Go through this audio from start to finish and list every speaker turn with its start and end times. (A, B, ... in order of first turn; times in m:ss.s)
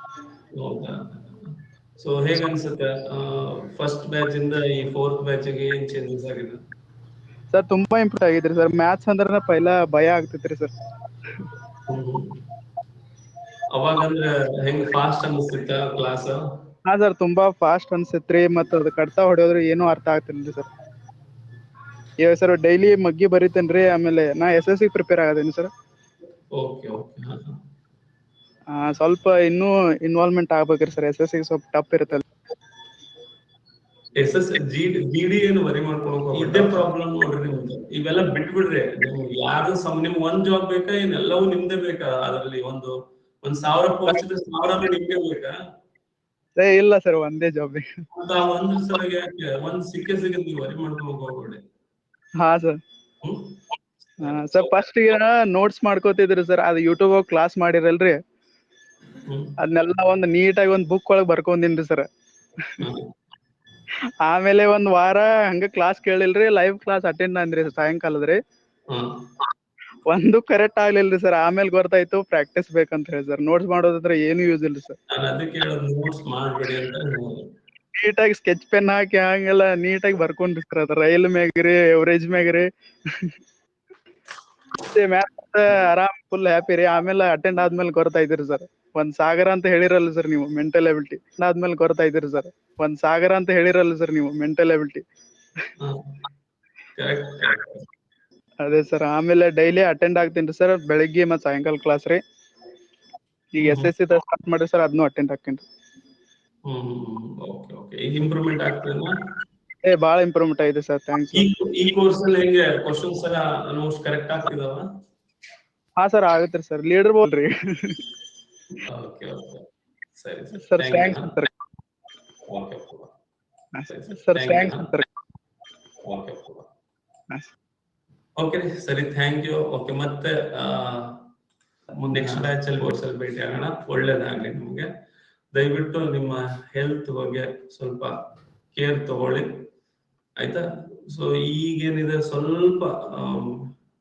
0:00.6-0:06.6 A
0:07.5-0:10.7 B
0:11.9-0:12.4 A
0:13.7-0:16.4 A
0:16.8-0:20.7 B
0:22.2-0:25.7 B
0:26.5-0:27.6 A
0:28.7-0:32.3 B
0:34.2-0:45.5 A
0:36.3-0:36.7 B
0:46.6-0:47.9 B
0:48.1-0:51.6 A
0:52.4-0:52.8 B
0:53.2-0:53.5 A
0:54.2-0:54.7 A
0:54.2-0:58.2 B
0:59.3-0:59.5 A
0:59.6-1:02.1 B
1:02.8-1:03.1 A
1:04.2-1:08.4 B
1:10.1-1:15.0 B
1:15.1-1:17.5 A
1:18.0-1:23.3 B
1:24.8-1:35.0 B
1:35.8-1:36.1 A
1:37.0-1:37.8 A
1:38.6-1:42.2 B
1:43.5-1:45.6 B
1:43.6-1:43.9 A
1:46.6-1:49.1 A
1:49.8-1:51.5 B
1:51.3-1:54.8 A
1:56.0-1:58.0 B
1:58.8-1:59.7 A
2:00.2-2:01.4 A
2:00.6-2:01.5 B
2:02.5-2:03.1 A
2:03.7-2:05.1 B
2:03.9-2:04.9 A
2:06.0-2:06.7 A
2:08.4-2:11.2 A
2:12.0-2:14.9 A
2:12.1-2:12.4 B
2:15.5-2:18.1 A
2:18.7-2:19.5 A
2:20.4-2:23.7 A